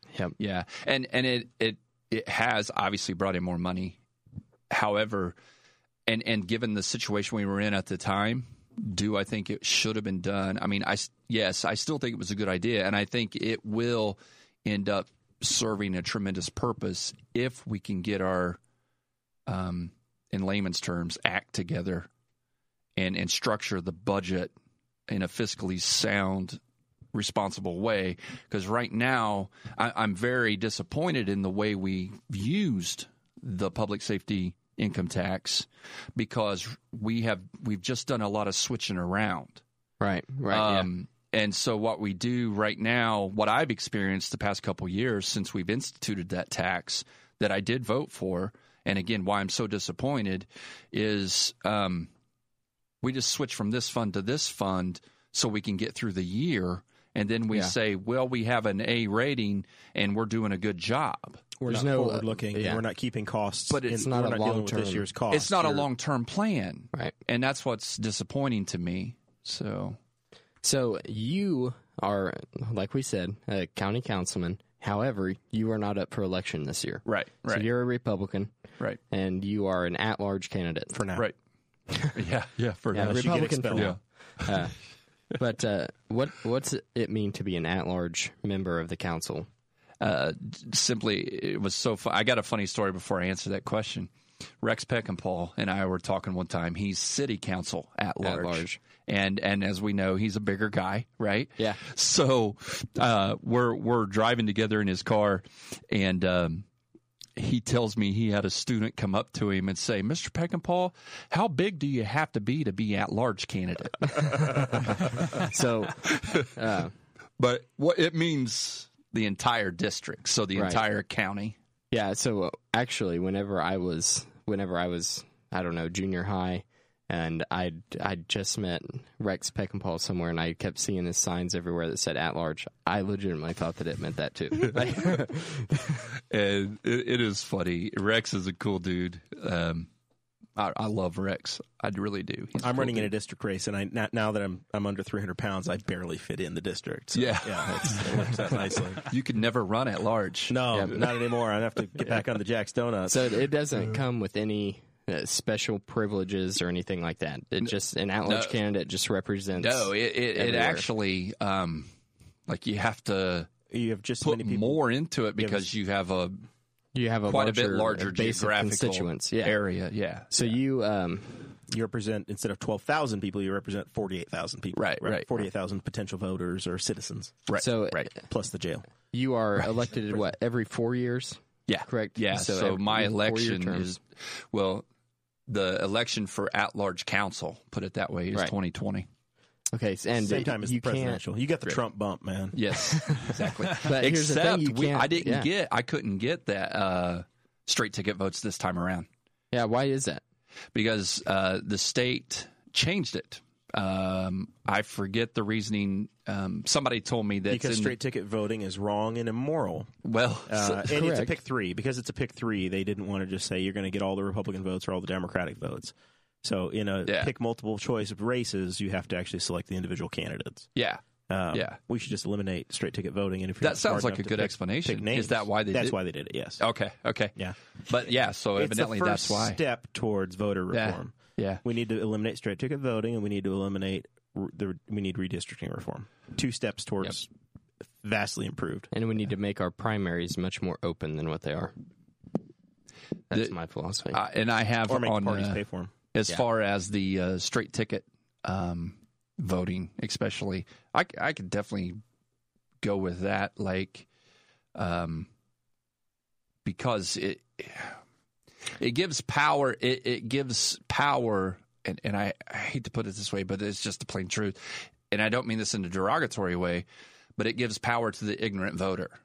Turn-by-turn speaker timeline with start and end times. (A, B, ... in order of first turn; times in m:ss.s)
0:00.4-0:04.0 A
0:04.7-0:05.4 A
0:06.1-0:18.6 A
0:19.5-0:22.1 A
0:23.0-0:24.5 A
0:25.1-0:26.6 A
0:27.1-0:39.6 A
0:40.0-0:40.9 B
0:40.5-0:52.1 A
0:53.0-1:01.4 A
1:01.6-1:05.9 C
1:01.6-1:02.8 B
1:03.7-1:04.1 A
1:03.9-1:05.0 B
1:05.3-1:10.0 A
1:10.6-1:18.5 B
1:17.0-1:17.7 A
1:19.1-1:21.0 B
1:20.9-1:21.3 C
1:21.9-1:22.2 B
1:22.1-1:24.6 A
1:22.9-1:24.8 B
1:23.0-1:24.0 C
1:25.4-1:29.5 B
1:30.0-1:46.6 A
1:38.2-1:38.8 B
1:47.4-1:55.5 A
1:55.3-1:56.9 B
1:56.0-1:56.5 A
1:57.4-2:01.6 A
2:00.5-2:00.8 B
2:01.9-2:15.9 B
2:14.8-2:15.1 A
2:16.1-2:19.9 A
2:20.6-2:23.1 A
2:22.6-2:29.1 C
2:27.1-2:31.2 A
2:30.5-2:33.4 C
2:30.7-2:31.0 B
2:33.1-2:40.9 B
2:38.2-2:38.6 A
2:39.6-2:41.9 A
2:42.5-2:43.5 A
2:43.7-2:44.8 C
2:44.2-2:46.4 A
2:45.4-2:45.6 C
2:46.9-2:49.6 B
2:47.2-2:50.5 A
2:50.3-2:51.5 B
2:51.7-2:57.4 C
2:54.7-2:55.3 A
2:57.5-2:58.1 A
2:57.6-2:58.2 B
2:58.2-2:58.9 C
2:59.1-3:03.9 B
3:01.7-3:04.8 A
3:05.5-3:09.1 A
3:09.7-3:11.7 B
3:10.2-3:12.6 C
3:12.5-3:19.1 A
3:12.8-3:15.5 B
3:19.5-3:20.2 B
3:20.7-3:28.0 A
3:27.5-3:29.9 C
3:30.0-3:31.0 A
3:30.5-3:40.7 C
3:30.9-3:31.4 B
3:37.0-3:37.3 A
3:40.8-3:41.8 A
3:41.3-3:46.6 C
3:43.6-3:46.0 A
3:46.6-3:49.6 A
3:48.6-3:57.3 C
3:50.7-3:51.6 A
3:58.0-3:58.9 C
3:58.9-4:01.7 B
4:03.3-4:04.2 B
4:03.3-4:03.6 A
4:04.1-4:05.6 A
4:04.9-4:05.9 C
4:06.1-4:12.0 A
4:12.8-4:14.0 A
4:14.7-4:15.3 A
4:16.6-4:18.0 A
4:18.8-4:26.8 A
4:27.4-4:29.2 A